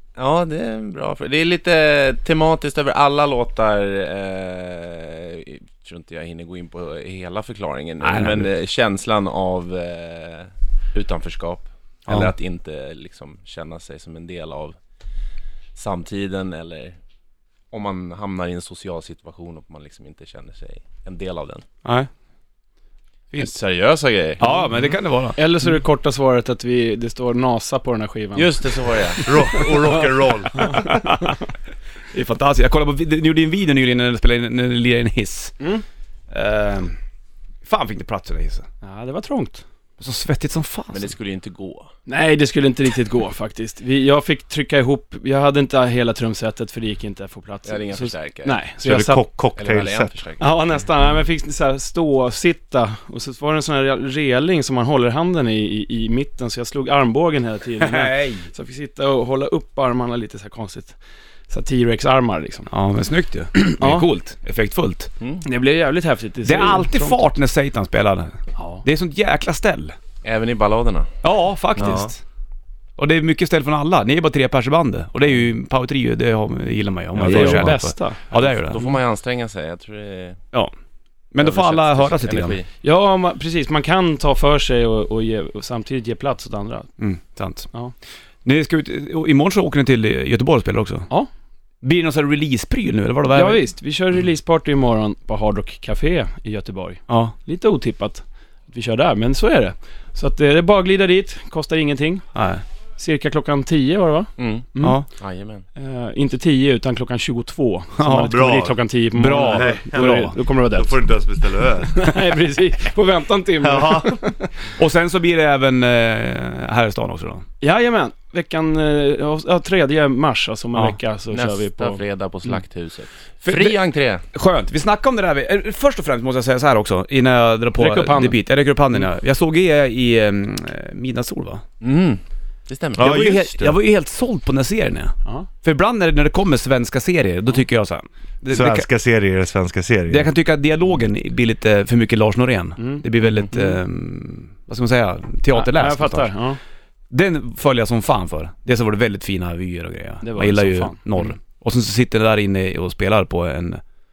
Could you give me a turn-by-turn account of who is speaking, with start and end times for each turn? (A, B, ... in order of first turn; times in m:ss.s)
0:00.2-0:14.8 A
0:08.0-0:08.5 B
0:12.1-0:12.3 B
0:15.8-0:17.0 A
0:17.7-0:21.6 A
0:23.4-0:24.6 A
0:24.4-0:25.4 B
0:25.4-0:29.7 C
0:28.3-0:29.3 A
0:29.2-0:30.7 D
0:30.6-0:31.4 B
0:32.1-0:35.5 B
0:36.3-0:37.0 B
0:37.6-0:38.6 B
0:38.8-0:39.6 C
0:40.0-0:41.1 B
0:40.9-0:41.9 A
0:42.1-0:49.2 C
0:47.6-0:48.6 A
0:48.8-0:50.1 D
0:49.6-0:50.5 A
0:50.4-1:01.0 C
0:57.8-0:58.5 B
1:01.5-1:02.7 C
1:02.7-1:05.1 B
1:03.6-1:04.1 C
1:05.4-1:07.2 C
1:06.4-1:09.9 B
1:08.6-1:08.8 C
1:10.2-1:11.1 A
1:11.2-1:12.2 B
1:11.8-1:12.1 D
1:13.0-1:18.8 B
1:17.2-1:18.2 C
1:17.3-1:17.6 A
1:18.3-1:20.4 A
1:21.3-1:22.6 B
1:21.4-1:22.7 A
1:22.8-1:26.9 C
1:27.0-1:27.7 B
1:28.4-1:31.1 B
1:31.8-1:33.6 B
1:33.3-1:42.3 C
1:37.1-1:37.3 B
1:42.3-1:42.6 B
1:43.0-1:45.0 C
1:44.4-1:45.6 A
1:44.8-1:45.1 B
1:45.8-1:51.0 C
1:48.0-1:48.3 B
1:48.3-1:48.8 D
1:49.1-1:50.4 B
1:49.4-1:52.1 D
1:51.9-1:54.5 C
1:53.6-1:54.2 D
1:54.7-1:57.4 B
1:57.6-2:02.0 C
2:01.3-2:04.2 A
2:03.4-2:03.8 B
2:04.3-2:11.6 B
2:07.8-2:08.4 C
2:11.8-2:13.2 A
2:13.0-2:13.8 D
2:13.0-2:18.8 B
2:18.5-2:20.3 D
2:20.1-2:26.3 B
2:22.8-2:23.8 C
2:25.5-2:26.6 C
2:27.1-2:33.8 B
2:30.2-2:31.2 C